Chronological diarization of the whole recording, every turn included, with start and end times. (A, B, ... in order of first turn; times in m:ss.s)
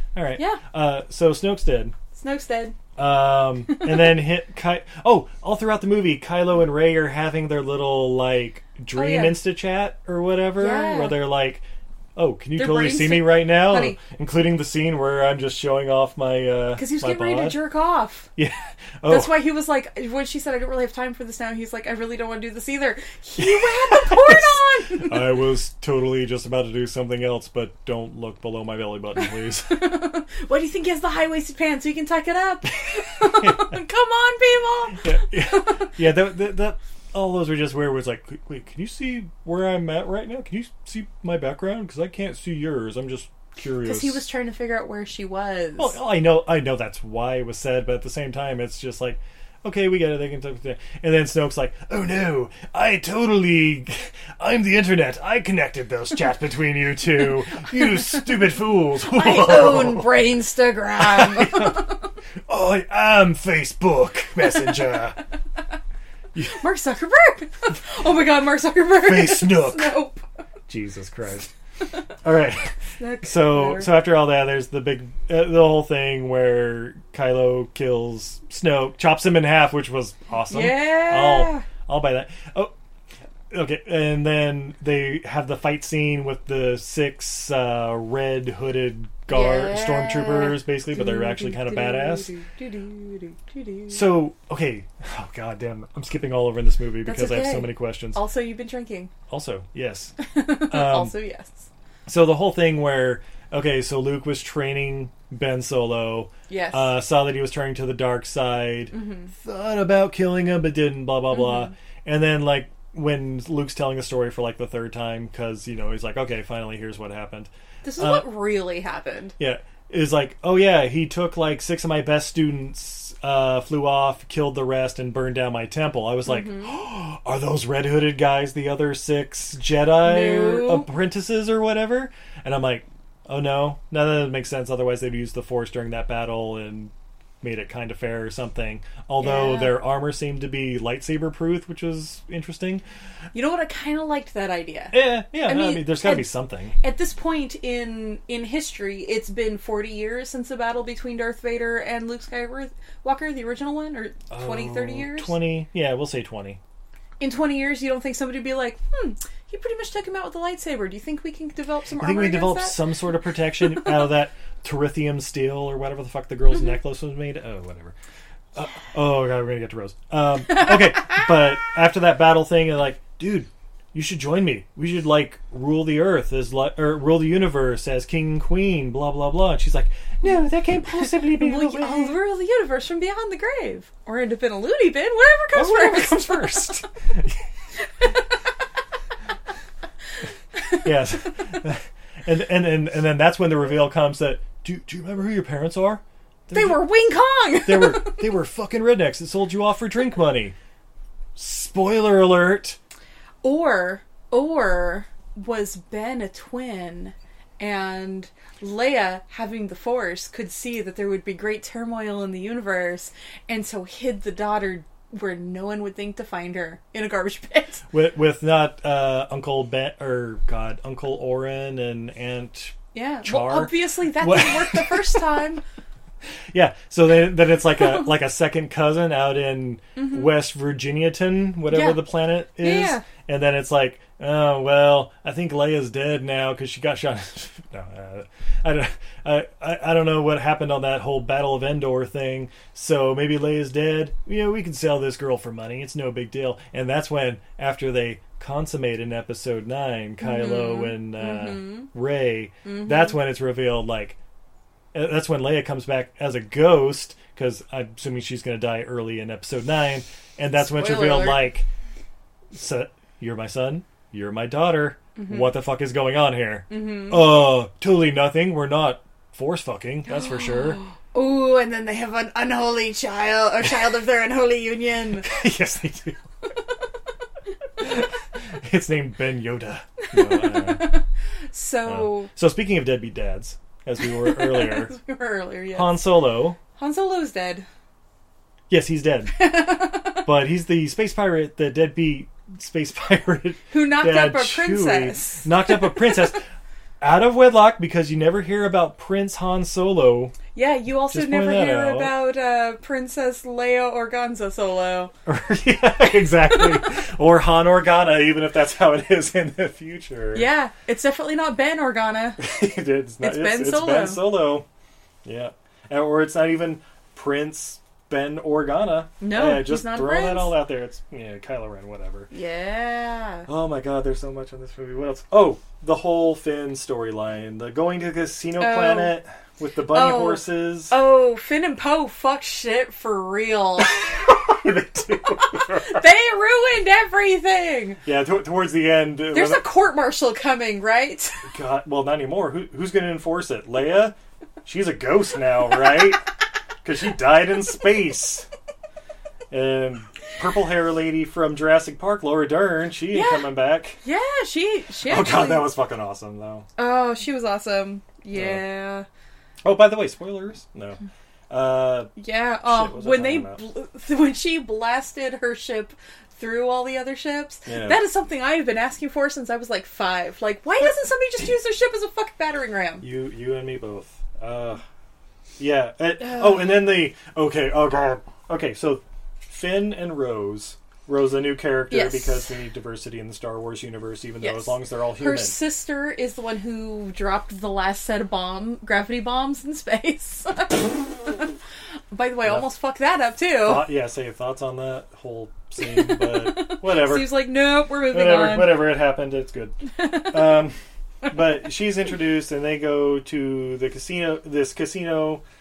0:00.2-0:02.0 A
0:02.2-0:02.8 B
0:03.0-0:11.6 A
0:03.8-0:04.1 B
0:08.9-0:09.4 B
0:10.6-0:11.2 B
0:12.2-0:17.6 A
0:12.6-0:14.0 B
0:16.8-0:18.3 B
0:18.4-0:19.4 A
0:19.1-0:25.3 B
0:23.4-0:29.8 A
0:29.6-0:35.9 B
0:33.2-0:33.8 A
0:35.0-0:44.3 A
0:43.8-0:46.0 B
0:45.8-1:00.2 A
0:59.1-1:02.0 B
1:01.0-1:01.9 A
1:02.5-1:05.2 A
1:06.4-1:06.6 A
1:06.4-1:10.2 B
1:09.0-1:10.0 A
1:10.7-1:11.5 A
1:12.2-1:22.7 A
1:13.0-1:13.9 B
1:20.5-1:21.7 B
1:23.5-1:32.3 A
1:29.3-1:34.2 B
1:33.9-1:38.2 A
1:37.0-1:39.1 B
1:39.3-1:40.2 A
1:40.2-1:41.7 B
1:40.7-1:41.2 A
1:42.1-1:58.4 A
1:46.5-1:47.0 B
1:48.9-1:49.3 B
1:51.4-1:51.7 B
1:57.8-1:59.4 B
1:59.4-2:22.8 A
2:06.2-2:06.8 B
2:10.0-2:10.9 B
2:19.2-2:19.8 B
2:23.3-2:35.4 B
2:24.9-2:26.8 A
2:34.3-2:36.6 A
2:37.2-2:42.8 B
2:42.0-2:48.0 A
2:48.6-3:02.2 A
3:01.0-3:06.8 B
3:05.6-3:07.4 A
3:10.8-3:16.9 A
3:16.5-3:18.3 B
3:17.6-3:20.6 A
3:21.4-3:22.8 A
3:23.4-3:37.8 B
3:37.9-3:45.3 A
3:42.9-3:45.6 B
3:46.5-4:14.2 A
3:50.0-3:50.3 B
3:51.7-3:52.0 B
3:52.6-3:53.0 B
4:10.2-4:11.9 B
4:12.6-4:13.2 B
4:14.9-4:21.7 A
4:20.7-4:21.5 B
4:22.5-4:30.8 A
4:25.2-4:25.5 B
4:26.7-4:27.3 B
4:30.1-4:35.3 B
4:35.2-4:36.2 A
4:37.8-4:41.0 A
4:40.0-4:42.3 B
4:41.9-4:44.9 A
4:44.0-4:46.2 B
4:45.7-4:46.6 A
4:46.7-4:47.7 B
4:48.7-4:49.7 A
4:49.3-4:50.2 B
4:50.2-4:56.4 A
4:53.7-4:56.1 B
4:57.0-5:00.4 A
5:00.6-5:05.1 B
5:01.1-5:02.1 A
5:05.3-5:10.5 A
5:06.5-5:06.8 B
5:10.3-5:12.4 B
5:12.4-5:14.7 A
5:13.2-5:14.3 B
5:15.2-5:22.3 A
5:19.2-5:20.6 B
5:22.3-5:23.5 B
5:23.5-5:31.0 A
5:28.6-5:29.2 B
5:29.9-5:34.1 B
5:33.8-5:36.1 A
5:35.4-5:38.0 B
5:38.0-5:39.7 A
5:39.3-5:41.5 B
5:41.5-5:46.3 A
5:46.8-5:48.5 A
5:49.5-5:54.0 A
5:53.1-5:55.7 B
5:55.0-5:56.7 A
5:56.8-5:59.1 B
5:58.3-5:58.6 A
5:59.6-6:02.1 A
6:02.2-6:13.0 B
6:02.6-6:03.6 A
6:07.7-6:08.0 A
6:13.0-6:14.8 A
6:15.6-6:25.6 A
6:21.9-6:22.4 B
6:24.4-6:31.5 B
6:32.1-6:33.9 B
6:32.4-6:32.7 A
6:33.6-6:39.8 A
6:35.8-6:39.0 B
6:40.0-6:40.6 B
6:40.3-6:40.8 A
6:41.3-6:45.4 A